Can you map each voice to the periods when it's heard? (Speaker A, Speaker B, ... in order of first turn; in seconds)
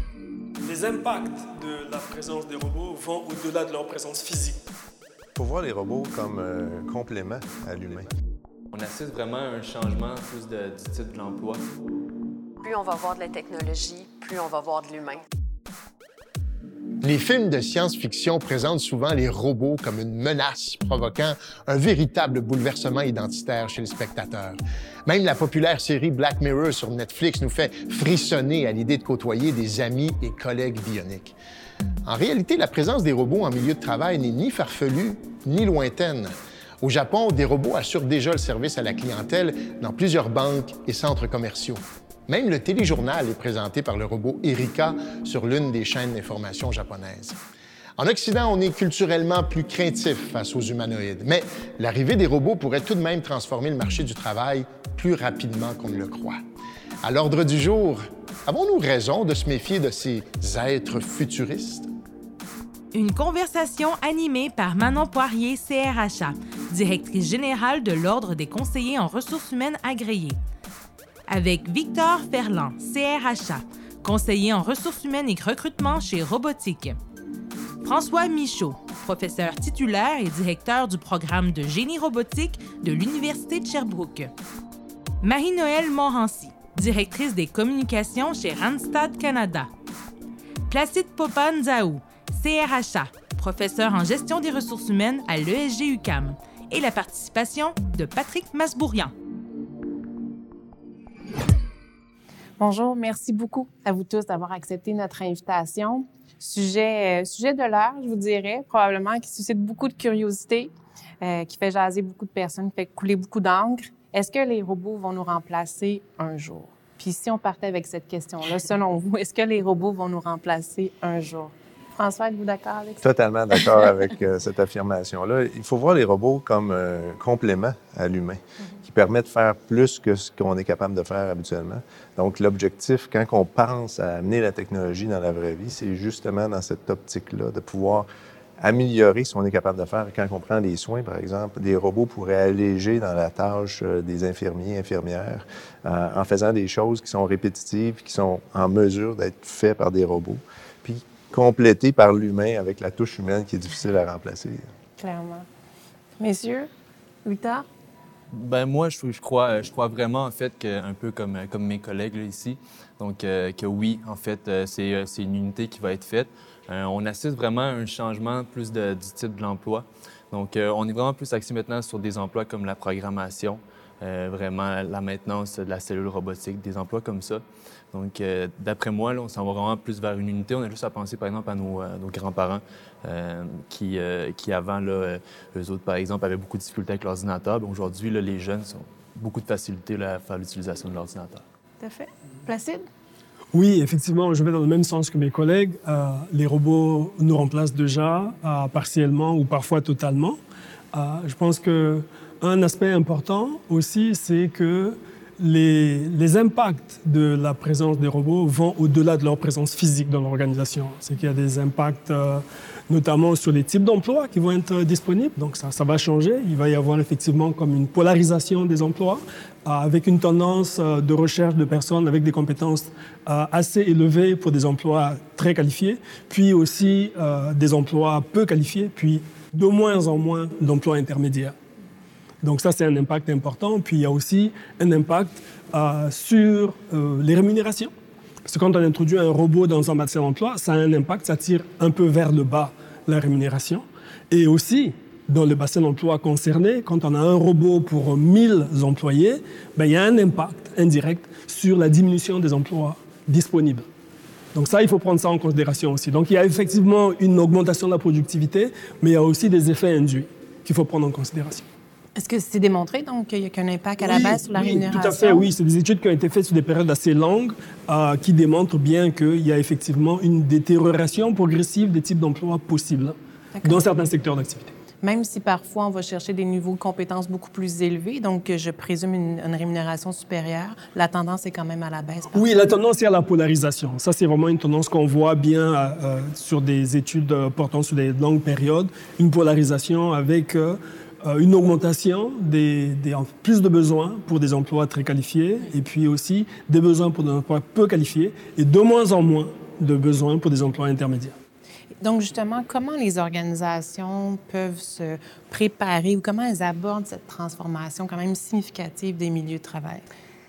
Speaker A: 0.6-4.7, 193.5-200.4, 200.9-231.6, 232.4-237.9, 238.5-253.9, 254.5-261.6, 264.0-274.7, 282.3-301.3
Speaker B: 5.4-8.1, 123.0-138.1, 138.6-154.7
Speaker C: 8.7-11.6, 158.3-191.4
Speaker D: 12.6-15.2
Speaker E: 17.0-31.4, 32.0-47.4, 48.0-56.4, 57.0-61.9
Speaker F: 62.9-70.4, 71.3-77.0, 77.8-84.3, 85.2-89.7, 90.7-99.1
Speaker G: 102.6-123.0, 155.0-155.5, 156.2-156.7, 157.2-157.7, 191.8-192.8, 262.2-265.5, 273.6-273.9, 275.0-282.5, 302.0-310.0